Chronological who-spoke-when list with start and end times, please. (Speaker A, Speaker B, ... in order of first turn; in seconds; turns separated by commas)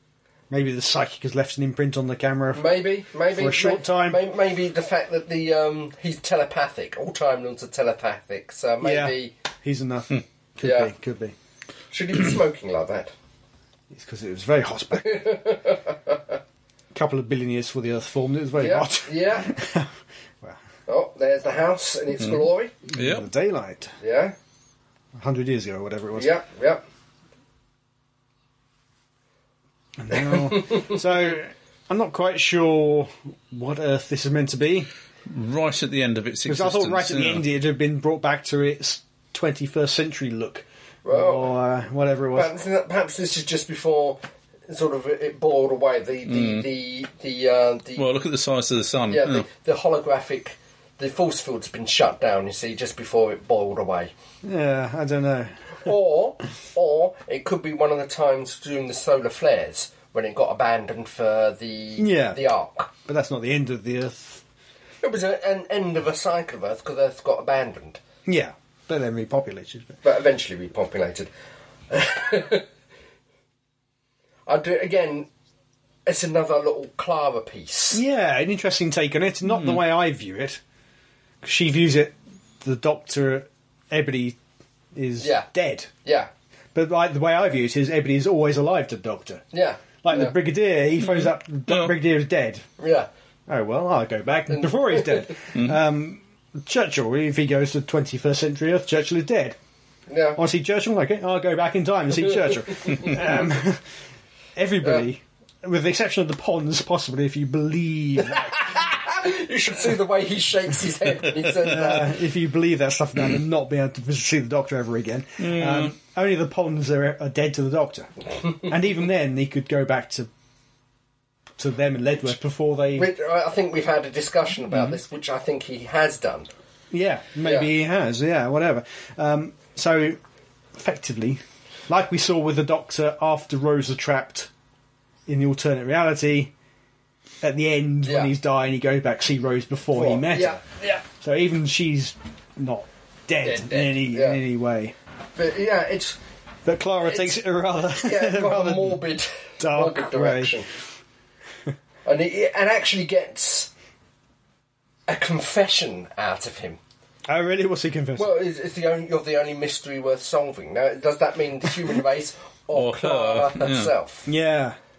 Speaker A: 0.5-2.7, Speaker B: 2.5-9.3, Speaker A: 3.3-4.2, Speaker A: 8.8-11.4, Speaker B: 10.6-10.9, Speaker B: 11.9-13.1, Speaker A: 13.9-15.3, Speaker B: 15.0-16.4, Speaker A: 16.9-20.6, Speaker B: 18.6-19.5, Speaker B: 20.9-22.7, Speaker A: 22.9-23.9, Speaker C: 22.9-23.3, Speaker B: 24.0-24.4, Speaker A: 25.2-26.3, Speaker B: 26.2-26.8, Speaker A: 30.0-34.9, Speaker B: 30.1-31.0, Speaker C: 35.3-37.4, Speaker A: 36.5-42.5, Speaker B: 41.0-41.5, Speaker B: 42.4-48.1, Speaker C: 46.3-46.7, Speaker C: 48.0-49.5, Speaker B: 49.1-54.1, Speaker A: 54.4-55.8, Speaker B: 55.8-62.9, Speaker A: 62.0-62.4, Speaker A: 63.0-64.4, Speaker B: 65.0-68.0, Speaker A: 68.3-70.0, Speaker B: 70.0-71.3, Speaker B: 71.9-72.7, Speaker B: 74.5-75.3, Speaker B: 76.1-78.0, Speaker A: 77.9-80.6, Speaker C: 79.5-79.8, Speaker A: 81.4-84.4, Speaker A: 85.0-85.9, Speaker B: 85.2-85.5, Speaker B: 86.0-86.3, Speaker A: 86.8-89.4, Speaker B: 89.5-90.3, Speaker A: 90.0-92.7, Speaker C: 91.0-91.9, Speaker B: 92.8-93.1, Speaker A: 93.5-99.6, Speaker B: 94.5-95.4, Speaker B: 100.1-100.4, Speaker A: 100.4-103.9, Speaker B: 102.3-103.2, Speaker A: 104.6-108.8, Speaker B: 108.2-112.2, Speaker A: 111.6-118.1, Speaker C: 115.4-115.9, Speaker B: 118.4-118.7, Speaker A: 118.7-120.3, Speaker A: 121.6-123.1, Speaker B: 123.0-126.5, Speaker A: 126.9-130.2, Speaker A: 130.8-134.5, Speaker A: 135.3-136.5, Speaker A: 137.4-140.6, Speaker B: 138.1-138.3, Speaker B: 139.9-141.0, Speaker A: 141.2-144.9, Speaker B: 143.4-144.4, Speaker B: 145.4-146.2, Speaker A: 146.7-149.0, Speaker B: 147.0-147.4, Speaker B: 148.0-150.7, Speaker A: 149.6-150.6, Speaker B: 152.1-153.7, Speaker B: 155.1-156.8, Speaker A: 157.3-158.3, Speaker B: 158.2-164.3, Speaker C: 162.7-163.9, Speaker A: 164.3-164.8